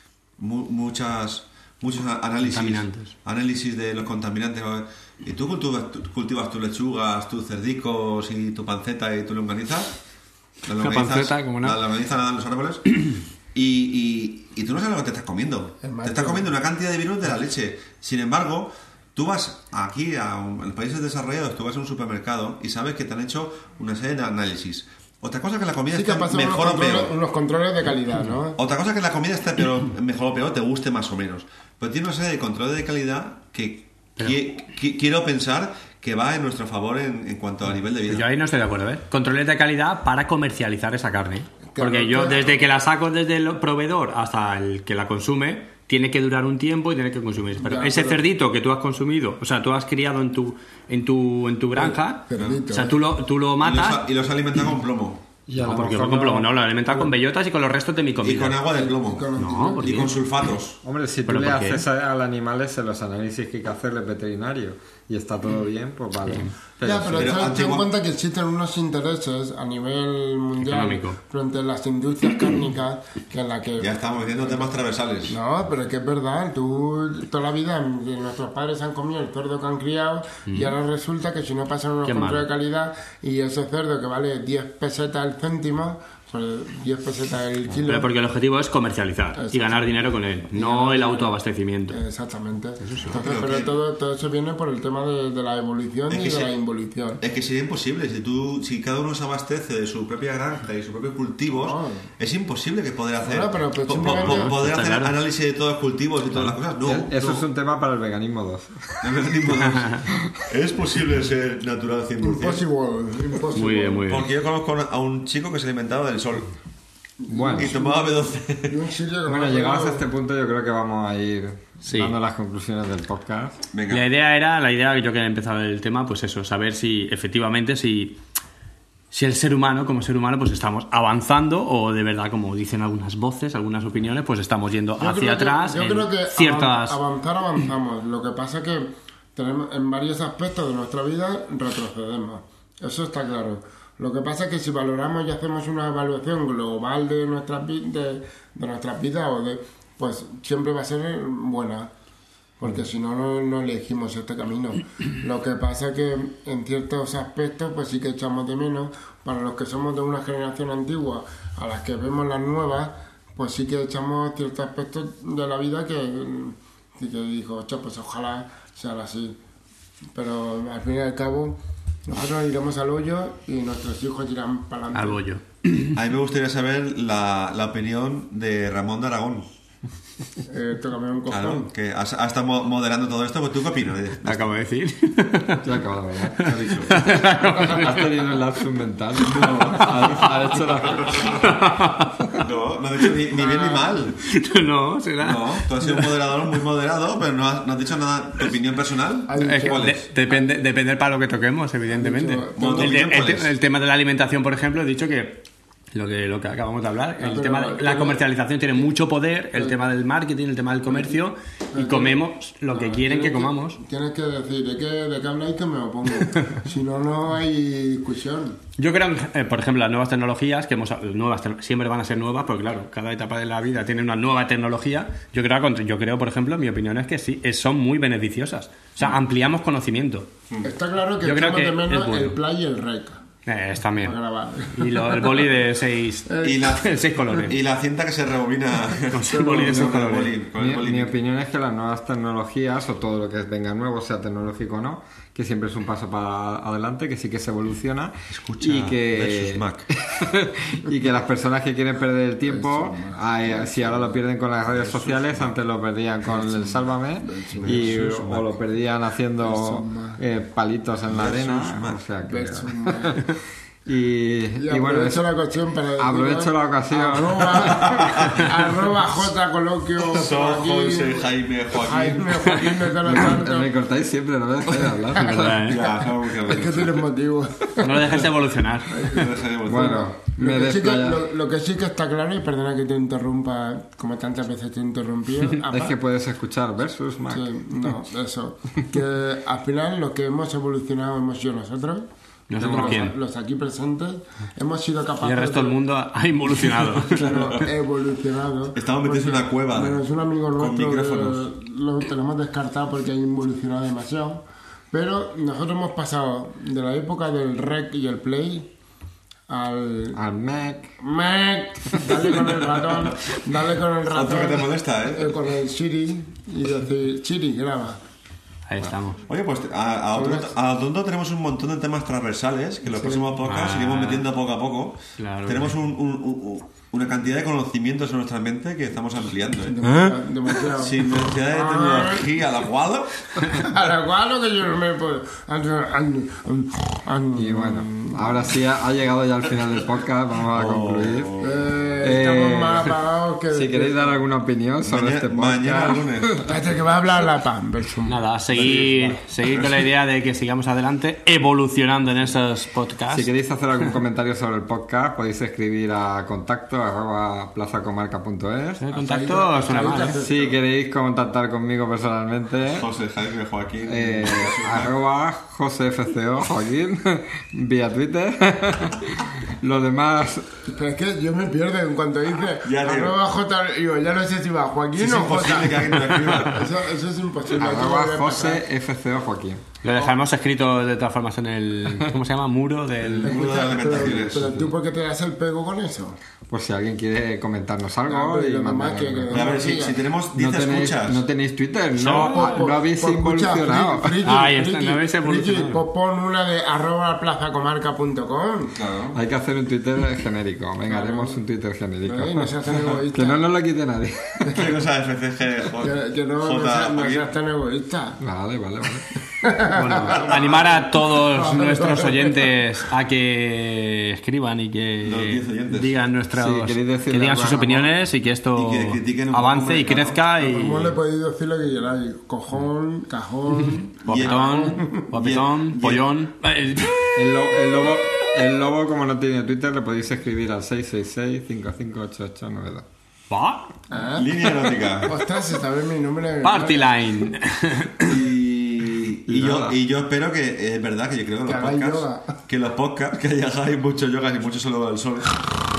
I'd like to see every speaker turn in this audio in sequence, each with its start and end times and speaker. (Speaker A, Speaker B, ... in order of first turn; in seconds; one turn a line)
Speaker A: 0.4-10.0
Speaker B: 2.4-3.1
Speaker A: 10.7-27.1
Speaker B: 10.7-11.8
Speaker C: 15.8-16.5
Speaker C: 25.9-28.6
Speaker A: 28.6-38.2
Speaker B: 38.1-54.1
Speaker C: 41.7-42.6
Speaker C: 47.6-48.2
Speaker C: 51.8-53.0
Speaker A: 52.3-52.6
Speaker A: 53.6-55.2
Speaker D: 55.5-56.5
Speaker B: 55.6-58.7
Speaker A: 58.2-60.8
Speaker C: 58.7-60.1
Speaker B: 59.4-60.2
Speaker D: 60.8-67.3
Speaker B: 61.3-61.8
Speaker C: 66.8-88.1
Speaker A: 67.1-67.9
Speaker B: 70.6-71.2
Speaker A: 73.8-75.4
Speaker B: 80.5-80.8
Speaker B: 82.1-82.5
Speaker B: 87.8-92.0
Speaker C: 89.4-91.4
Speaker C: 91.9-97.2
Speaker B: 92.8-93.2
Speaker A: 93.1-93.7
Speaker A: 96.1-96.5
Speaker A: 97.2-107.4
Speaker C: 101.5-102.1
Speaker C: 103.2-104.5
Speaker B: 104.0-105.2
Speaker D: 106.8-109.1
Speaker A: 109.0-112.6
Speaker B: 109.7-110.0
Speaker D: 110.1-110.4
Speaker C: 112.2-114.0
Speaker B: 113.6-114.3
Speaker A: 114.1-116.5
Speaker C: 117.2-120.0
Speaker D: 117.3-117.8
Speaker A: 117.6-118.8
Speaker D: 119.3-123.6
Speaker B: 121.8-122.2
Speaker A: 123.7-124.0
Speaker B: 123.9-128.2
Speaker B: 129.1-137.0
Speaker C: 135.0-151.9
Speaker C: 152.6-169.4
Speaker C: 170.2-175.2
Speaker B: 174.9-176.0
Speaker A: 175.9-179.5
Speaker C: 180.5-181.7
Speaker A: 181.3-184.6
Speaker B: 184.2-185.7
Speaker D: 185.6-191.5
Speaker B: 186.4-188.1
Speaker A: 186.4-187.0
Speaker A: 189.3-190.3
Speaker B: 189.4-190.4
Speaker A: 191.0-191.4
Speaker B: 191.1-192.2
Speaker A: 192.4-194.2
Speaker C: 193.3-193.9
Speaker B: 194.2-196.5
Speaker A: 195.2-200.0
Speaker C: 199.3-200.4
Speaker B: 199.4-213.8
Speaker C: 201.9-203.0
Speaker A: 202.6-203.5
Speaker C: 207.2-208.2
Speaker C: 210.9-211.2
Speaker C: 211.7-218.6
Speaker B: 218.8-230.3
Speaker C: 230.6-233.2
Speaker B: 231.2-232.4
Speaker B: 233.5-234.2
Speaker C: 234.0-235.5
Speaker B: 234.7-237.6
Speaker C: 236.3-236.7
Speaker A: 236.4-241.2
Speaker B: 239.0-240.3
Speaker C: 239.3-239.9
Speaker D: 240.6-263.3
Speaker A: 248.3-249.9
Speaker C: 252.5-254.0
Speaker A: 254.8-255.5
Speaker C: 256.3-258.5
Speaker A: 257.6-258.2
Speaker C: 259.4-260.2
Speaker A: 261.1-262.0
Speaker C: 262.2-263.3
Speaker D: 263.9-265.3
Speaker C: 264.6-273.7
Speaker D: 266.0-267.9
Speaker A: 267.8-268.5
Speaker A: 270.0-272.7
Speaker D: 273.1-275.8
Speaker B: 275.2-275.8
Speaker A: 275.6-277.0
Speaker C: 276.4-278.3
Speaker B: 277.8-279.2
Speaker C: 278.9-285.9
Speaker A: 279.1-280.0
Speaker D: 279.6-281.2
Speaker D: 285.7-287.5
Speaker C: 287.3-292.1
Speaker B: 292.5-293.1
Speaker C: 292.6-295.8
Speaker D: 292.6-293.0
Speaker B: 295.2-297.5
Speaker A: 297.1-297.7
Speaker C: 297.1-308.7
Speaker A: 298.8-300.0
Speaker A: 300.6-301.4
Speaker C: 309.5-310.2
Speaker D: 310.1-311.0
Speaker C: 311.0-318.0
Speaker A: 314.1-315.4
Speaker B: 318.7-319.2
Speaker A: 319.3-329.8
Speaker C: 320.1-320.5
Speaker C: 322.9-323.3
Speaker B: 323.4-324.3
Speaker B: 325.2-325.8
Speaker C: 329.7-332.3
Speaker A: 330.7-333.6
Speaker C: 333.4-338.4
Speaker D: 337.4-341.4
Speaker A: 340.5-341.6
Speaker C: 341.4-344.2
Speaker D: 342.0-342.9
Speaker D: 343.5-346.2
Speaker A: 344.9-346.5
Speaker C: 346.4-348.2
Speaker B: 348.1-353.3
Speaker A: 348.5-349.9
Speaker D: 353.1-358.8
Speaker B: 358.8-360.2
Speaker C: 358.9-360.6
Speaker D: 360.2-362.9
Speaker A: 362.7-364.9
Speaker D: 363.8-370.6
Speaker C: 370.7-378.6
Speaker A: 372.6-373.2
Speaker A: 375.0-376.7
Speaker D: 377.5-379.6
Speaker B: 379.8-383.6
Speaker A: 383.1-384.6
Speaker C: 383.2-386.2
Speaker D: 386.5-389.7
Speaker C: 388.1-390.0
Speaker A: 389.3-391.2
Speaker D: 390.3-394.2
Speaker B: 392.0-392.6
Speaker C: 392.0-398.8
Speaker B: 394.2-395.8
Speaker A: 398.8-399.2
Speaker D: 399.1-404.6
Speaker C: 400.9-401.4
Speaker C: 402.1-403.4
Speaker A: 404.5-407.3
Speaker C: 405.8-408.2
Speaker D: 408.2-409.1
Speaker C: 409.2-410.3
Speaker B: 409.7-421.0
Speaker A: 410.0-410.9
Speaker C: 411.2-412.6
Speaker A: 415.0-415.9
Speaker D: 416.4-417.9
Speaker A: 418.6-420.2
Speaker C: 420.4-425.1
Speaker B: 423.6-427.3
Speaker A: 424.1-424.4
Speaker A: 425.1-426.1
Speaker D: 427.2-432.9
Speaker B: 433.3-433.7
Speaker C: 433.9-437.0
Speaker A: 434.1-435.2
Speaker B: 436.4-438.2
Speaker A: 438.0-445.4
Speaker D: 439.3-439.8
Speaker C: 441.5-442.3